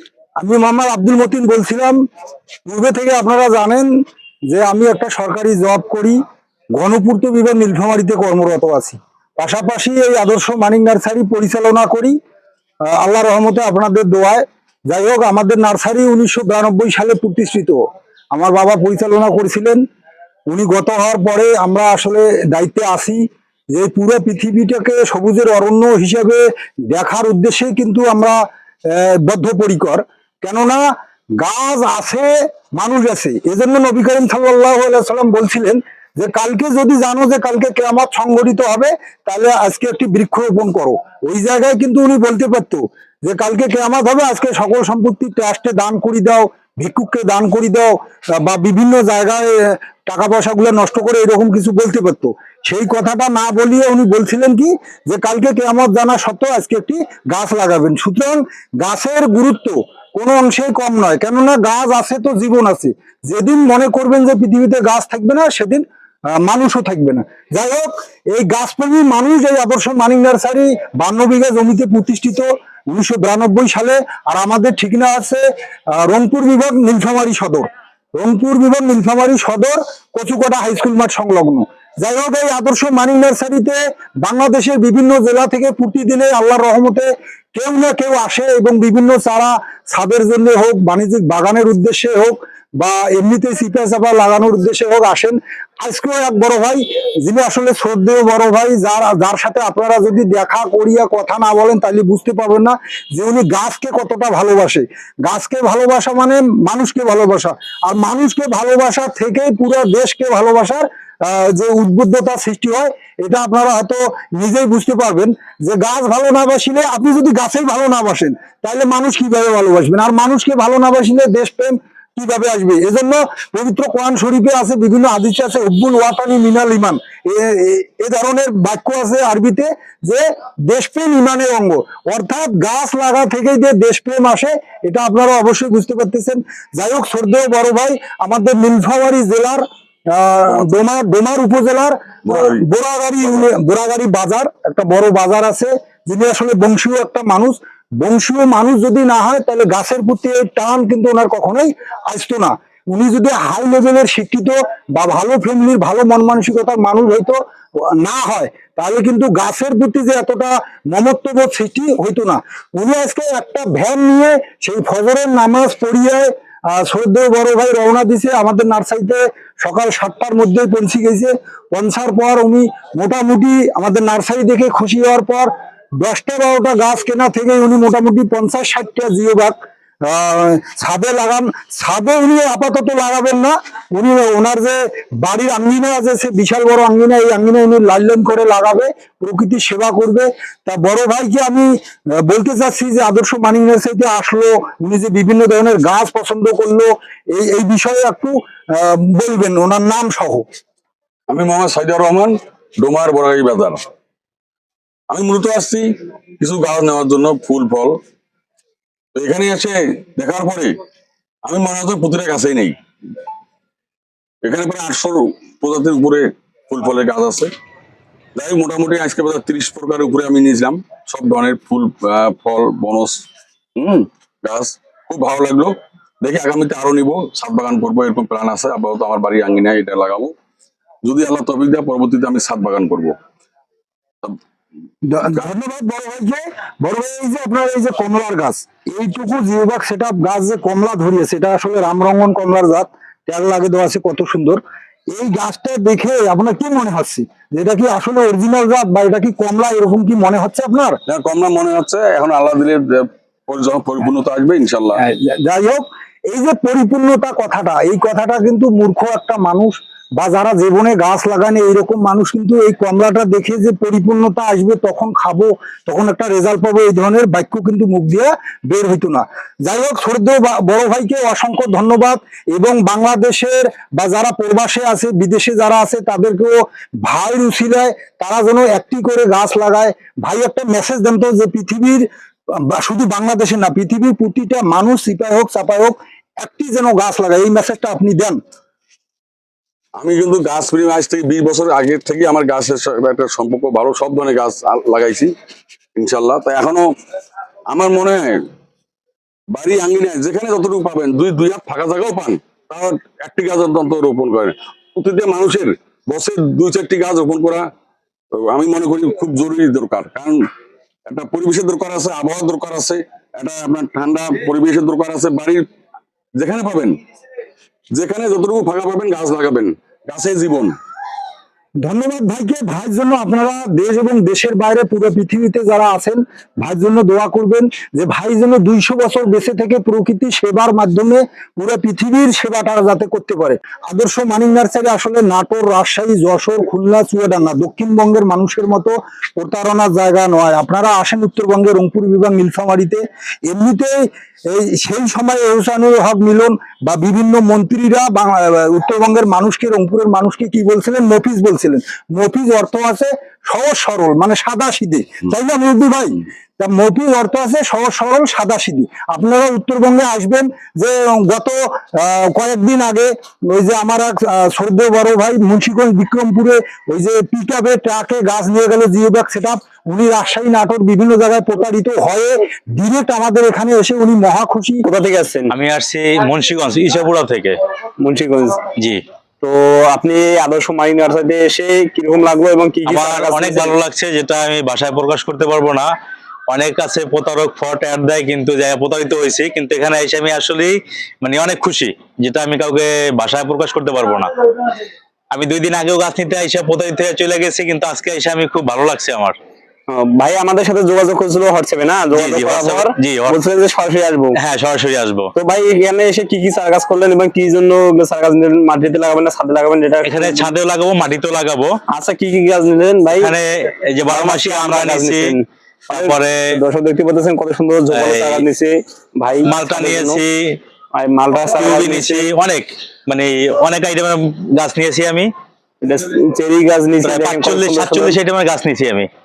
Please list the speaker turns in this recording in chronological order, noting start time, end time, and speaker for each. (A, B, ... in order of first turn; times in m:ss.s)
0:00.4-0:02.0 A
0:02.6-0:03.9 A
0:04.5-0:06.2 A
0:06.7-0:12.2 A
0:12.9-0:17.8 A
0:18.3-0:19.8 A
0:20.5-0:30.8 A
0:31.4-1:05.8 A
1:06.4-1:15.4 A
1:16.0-2:37.4 A
2:22.3-2:22.6 B
2:38.0-3:11.7 A
3:12.2-3:20.4 A
3:21.3-3:23.8 B
3:25.1-3:25.9 B
3:26.4-3:27.9 B
3:29.2-3:30.7 B
3:31.4-3:32.8 B
3:34.4-3:37.5 B
3:38.4-3:43.2 B
3:43.8-3:50.3 B
3:51.0-3:53.1 B
3:55.1-4:11.0 A
4:11.1-4:15.0 B
4:15.0-4:42.0 A
4:42.6-4:48.4 A
4:50.0-4:55.3 B
4:56.0-4:56.9 B
4:57.7-4:58.4 B
4:59.5-5:07.6 B
5:08.3-5:10.4 B
5:11.1-5:15.6 B
5:16.4-5:17.0 B
5:17.9-5:20.7 B
5:21.8-6:14.8 A
6:14.8-6:15.5 C
6:15.5-6:17.6 D
6:18.0-6:18.7 C
6:18.7-6:19.0 D
6:19.4-6:23.7 C
6:22.8-6:25.9 D
6:26.5-6:34.7 D
6:35.3-6:39.4 D
6:39.9-6:44.4 C
6:42.1-6:43.4 D
6:44.4-6:45.3 D
6:45.3-6:50.5 C
6:50.0-6:51.7 D
6:51.9-6:53.3 C
6:53.2-6:55.3 D
6:54.1-7:00.2 C
6:55.9-6:56.5 D
6:57.9-6:58.4 D
6:59.4-7:00.6 D
7:00.9-7:02.3 C
7:01.5-7:05.3 D
7:05.8-7:08.2 C
7:07.0-7:09.1 D